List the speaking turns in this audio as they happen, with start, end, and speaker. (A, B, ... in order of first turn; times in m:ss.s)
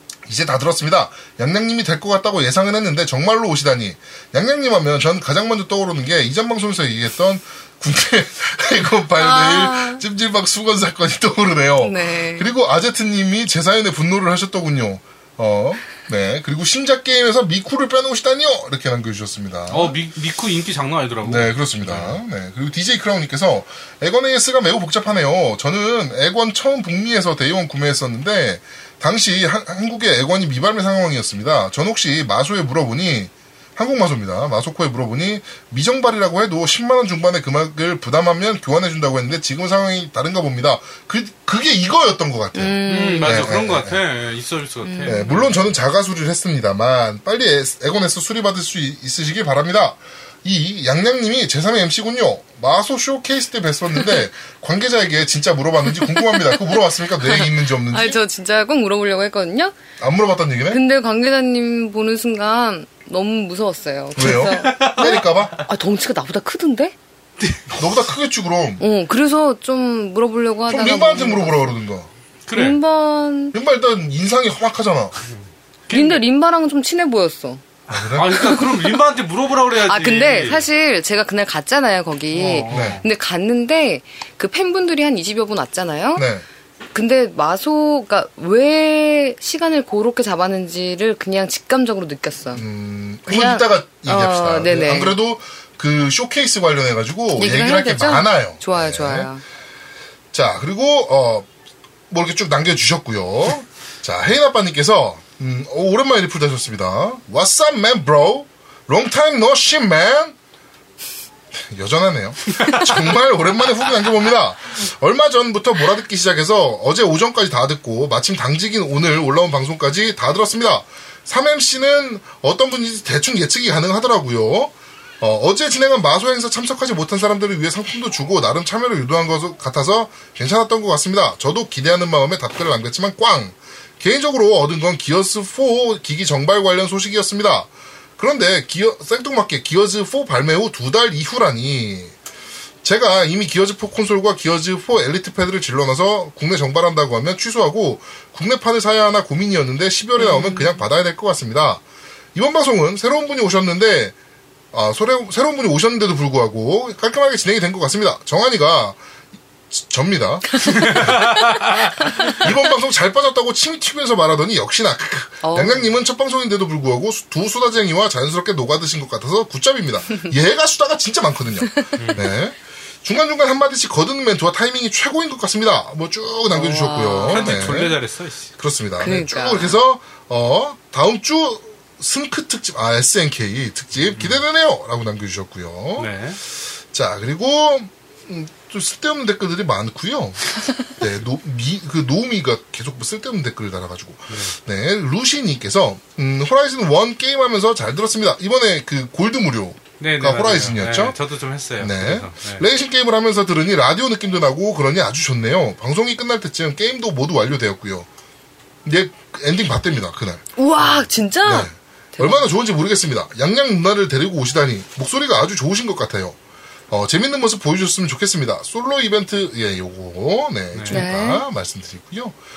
0:00.2-0:20.0 A
0:09.2-0:10.0 B
0:11.8-0:12.5 B
0:19.7-0:22.2 C
0:21.2-0:44.0 A
0:42.5-0:43.4 B
0:42.9-0:45.6 C
0:44.8-0:45.3 B
0:45.0-0:58.2 A
0:56.2-0:59.7 B
1:00.0-1:00.8 A
1:00.7-1:06.9 B
1:04.2-1:05.5 A
1:04.5-1:05.1 C
1:07.7-1:08.8 A
1:08.8-1:11.7 B
1:10.7-1:12.1 A
1:12.5-1:12.8 C
1:12.5-1:13.5 B
1:13.5-1:15.2 A
1:15.9-1:16.2 C
1:15.9-1:17.6 B
1:17.9-1:18.5 A
1:18.1-1:20.6 C
1:19.9-1:26.2 B
1:22.3-1:23.0 C
1:22.7-1:23.0 A
1:26.2-1:26.4 A
1:26.9-1:32.6 B
1:32.5-1:39.3 A
1:33.2-1:35.2 B
1:37.3-1:39.4 B
1:40.3-1:41.5 A
1:42.1-1:50.4 A
1:51.5-2:22.1 A
2:22.8-2:31.8 A
2:30.2-2:30.8 B
2:32.3-2:34.1 A
2:34.7-2:39.0 A
2:39.7-2:58.0 A
2:40.8-2:41.7 C
2:45.4-2:45.9 B
2:52.0-2:52.3 C
2:56.5-2:57.7 B
2:57.3-2:58.5 C
2:58.6-3:06.1 A
2:59.0-2:59.8 B
3:04.1-3:04.4 C
3:06.0-3:06.4 C
3:06.9-3:21.1 A
3:20.0-3:22.7 C
3:21.8-3:28.1 A
3:28.8-3:30.4 A
3:30.6-3:32.5 B
3:31.4-3:36.4 A
3:36.9-3:42.4 A
3:40.7-3:41.0 C
3:40.9-3:41.4 B